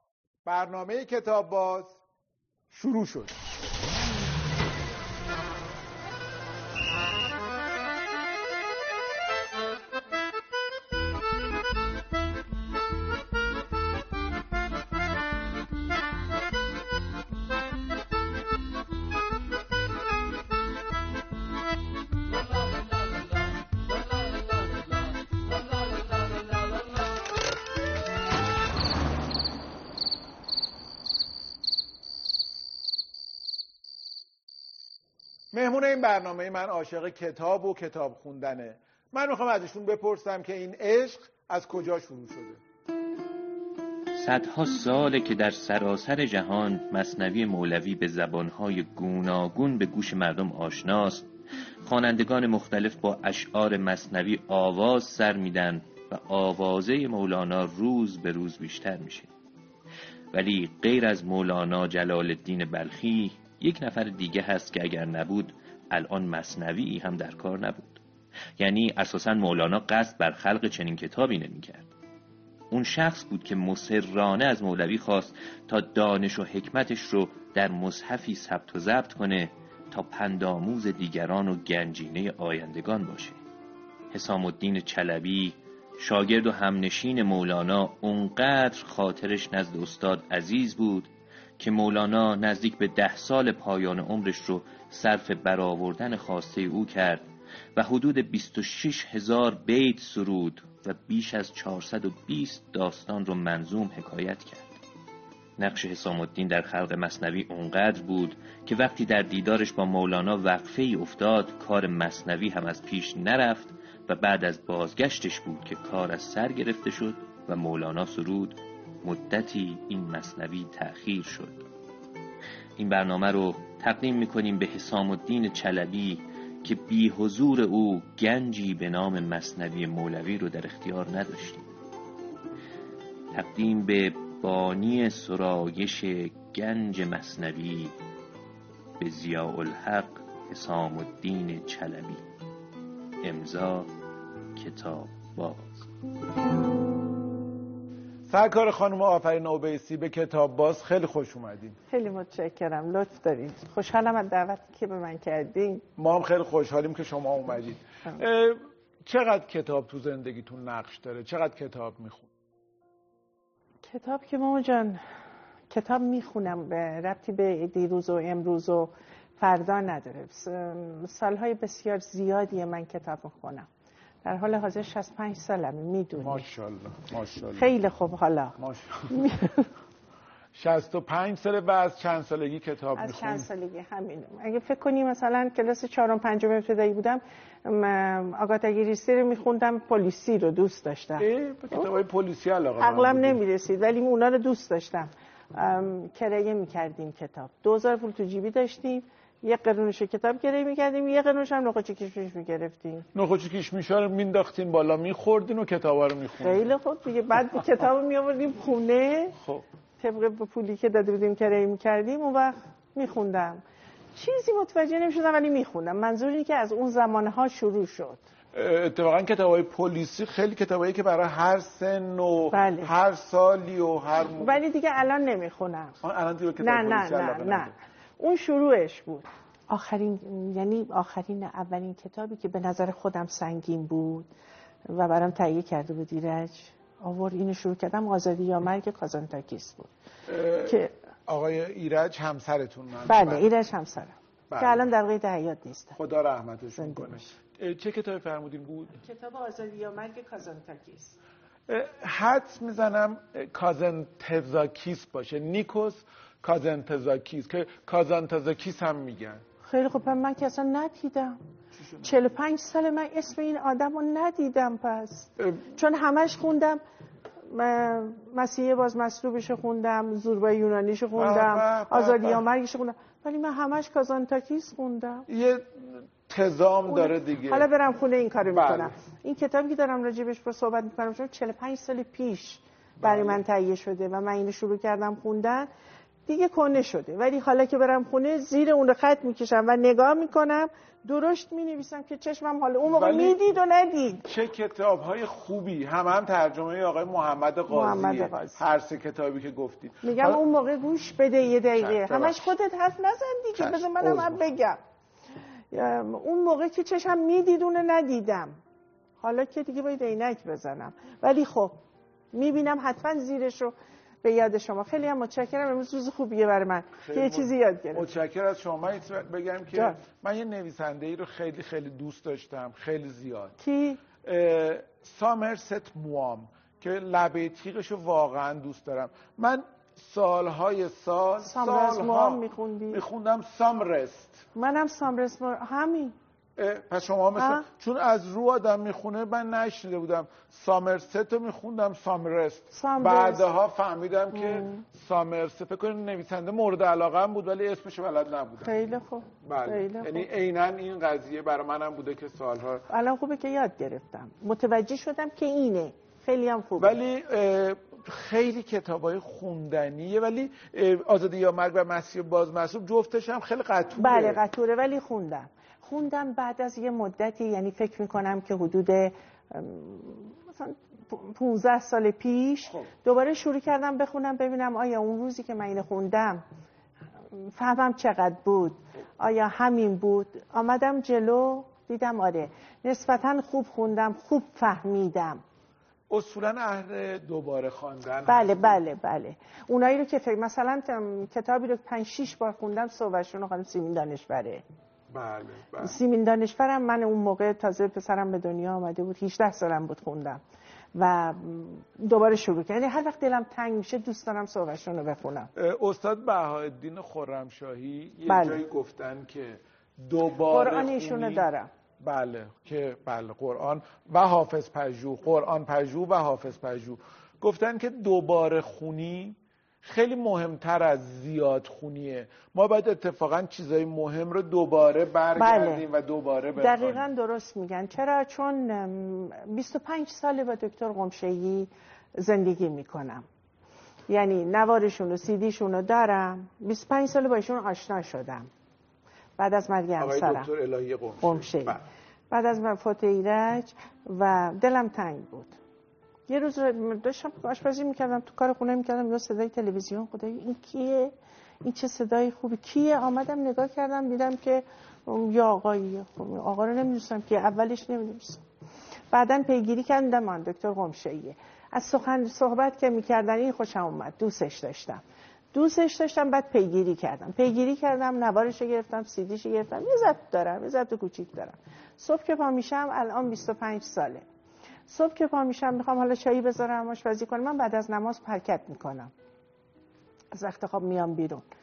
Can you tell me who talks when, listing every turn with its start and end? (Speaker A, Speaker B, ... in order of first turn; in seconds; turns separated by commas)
Speaker A: 0.5-2.0, Speaker A: 2.7-3.3, Speaker A: 35.5-42.6, Speaker B: 44.2-51.3, Speaker B: 51.9-59.3, Speaker B: 60.3-68.0, Speaker B: 68.6-71.9, Speaker B: 72.7-83.4, Speaker B: 84.1-104.8, Speaker B: 105.6-121.6, Speaker B: 122.8-131.7, Speaker B: 133.3-137.9, Speaker B: 139.0-142.2, Speaker B: 143.2-143.9, Speaker B: 144.6-145.9, Speaker A: 148.3-151.8, Speaker C: 151.9-155.8, Speaker A: 156.0-162.3, Speaker C: 163.8-165.0, Speaker C: 165.7-173.7, Speaker C: 174.2-176.5, Speaker A: 176.2-177.7, Speaker C: 177.6-178.6, Speaker A: 178.6-179.2, Speaker C: 179.1-179.7, Speaker A: 180.5-183.5, Speaker C: 183.0-191.9, Speaker A: 191.2-193.4, Speaker C: 192.8-203.1, Speaker A: 203.1-206.8, Speaker C: 206.4-209.4, Speaker A: 209.4-209.7, Speaker C: 210.0-213.6, Speaker C: 214.2-218.2, Speaker A: 218.5-224.6, Speaker C: 222.5-222.9, Speaker C: 224.4-226.0, Speaker A: 226.0-227.8, Speaker C: 226.6-234.3, Speaker C: 234.9-239.9, Speaker A: 240.3-243.5, Speaker C: 240.7-240.9, Speaker C: 243.1-246.0, Speaker A: 244.5-244.9, Speaker A: 246.0-249.0, Speaker C: 246.8-247.3, Speaker C: 249.0-251.2, Speaker A: 251.7-259.4, Speaker C: 259.6-261.4, Speaker A: 261.8-262.1, Speaker C: 262.0-266.8, Speaker A: 265.4-265.7, Speaker C: 267.5-275.3, Speaker A: 271.2-272.4, Speaker A: 275.3-277.7, Speaker C: 276.9-285.7, Speaker A: 278.5-278.9, Speaker A: 283.0-283.4, Speaker C: 286.3-294.3, Speaker A: 292.9-293.4, Speaker A: 294.3-300.4, Speaker C: 297.7-298.6, Speaker C: 300.0-304.8, Speaker A: 301.8-302.5, Speaker A: 303.6-304.5, Speaker C: 305.7-308.6, Speaker C: 309.2-311.8, Speaker C: 312.3-318.1, Speaker A: 317.0-323.6, Speaker C: 319.7-320.0, Speaker C: 323.6-324.0, Speaker A: 324.2-334.4, Speaker C: 331.4-333.0, Speaker C: 334.6-336.1, Speaker A: 336.6-348.7, Speaker C: 337.4-337.7, Speaker C: 342.7-343.5, Speaker C: 344.3-344.8, Speaker C: 348.6-350.3, Speaker A: 349.4-352.9, Speaker C: 352.9-357.0, Speaker A: 356.8-364.4, Speaker C: 364.0-376.4, Speaker C: 377.3-385.4, Speaker A: 386.1-388.8, Speaker C: 388.3-394.6, Speaker A: 395.1-395.9, Speaker C: 395.8-400.4, Speaker C: 400.9-405.5, Speaker A: 405.6-411.5, Speaker C: 408.3-408.6, Speaker C: 410.5-411.7, Speaker A: 412.0-427.1, Speaker C: 425.4-425.9, Speaker C: 426.6-433.3, Speaker C: 434.1-438.5, Speaker C: 439.4-440.5, Speaker A: 440.0-441.9, Speaker C: 441.2-441.8, Speaker C: 442.3-445.6, Speaker C: 446.3-458.4, Speaker C: 459.1-474.2, Speaker C: 474.9-479.1, Speaker C: 480.3-481.4